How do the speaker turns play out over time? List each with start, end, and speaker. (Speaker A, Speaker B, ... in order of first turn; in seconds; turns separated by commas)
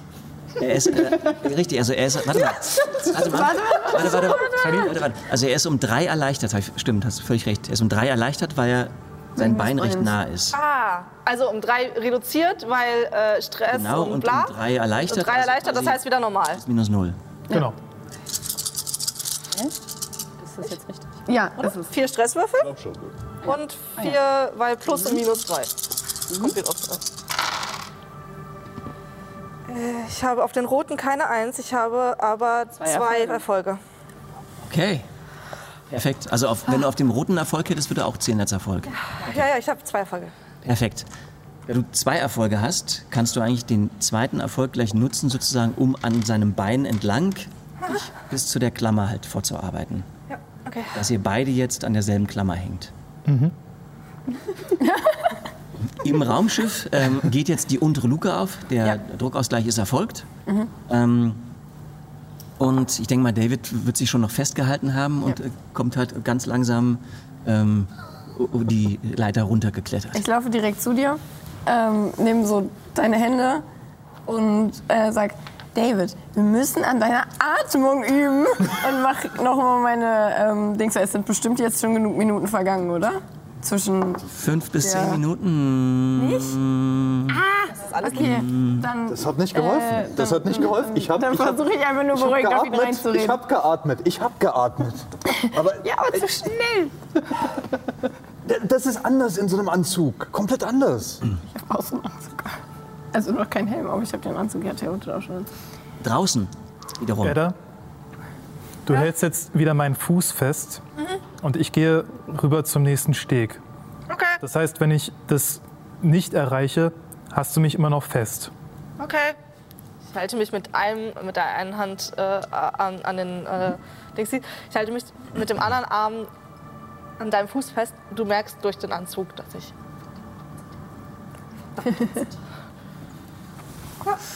Speaker A: 0.6-10.6, Speaker B: 3.1-4.9, Speaker C: 4.5-5.0, Speaker B: 9.3-10.1, Speaker D: 10.5-16.6, Speaker A: 13.7-17.2, Speaker C: 17.5-17.8, Speaker E: 20.4-21.3, Speaker B: 21.3-21.7, Speaker D: 21.6-22.7, Speaker F: 22.6-23.1, Speaker E: 23.4-24.2, Speaker D: 23.4-25.7, Speaker E: 26.3-26.6, Speaker D: 26.3-27.0, Speaker D: 29.7-33.8, Speaker E: 32.8-33.4, Speaker A: 34.6-35.1, Speaker A: 35.9-39.5, Speaker D: 39.1-40.3, Speaker A: 40.6-41.1, Speaker A: 41.7-50.1, Speaker D: 50.3-50.9, Speaker A: 50.9-52.9, Speaker C: 53.3-53.5, Speaker B: 54.8-55.4, Speaker A: 56.0-60.3, Speaker A: 60.9-61.5, Speaker A: 62.6-70.2, Speaker B: 70.1-73.6, Speaker B: 74.2-85.2, Speaker A: 84.3-87.4, Speaker B: 86.2-86.6, Speaker B: 87.3-93.4, Speaker D: 87.8-88.4, Speaker A: 88.1-88.9, Speaker F: 89.1-96.2, Speaker B: 95.8-96.9, Speaker F: 98.4-101.2, Speaker B: 101.5-102.6, Speaker B: 103.1-105.5, Speaker A: 106.0-107.4, Speaker C: 107.2-107.5, Speaker C: 108.8-110.8, Speaker C: 111.4-113.6, Speaker D: 114.1-114.4, Speaker C: 114.4-118.5, Speaker D: 119.0-119.4, Speaker D: 120.1-126.3, Speaker D: 127.2-129.7, Speaker D: 131.8-132.2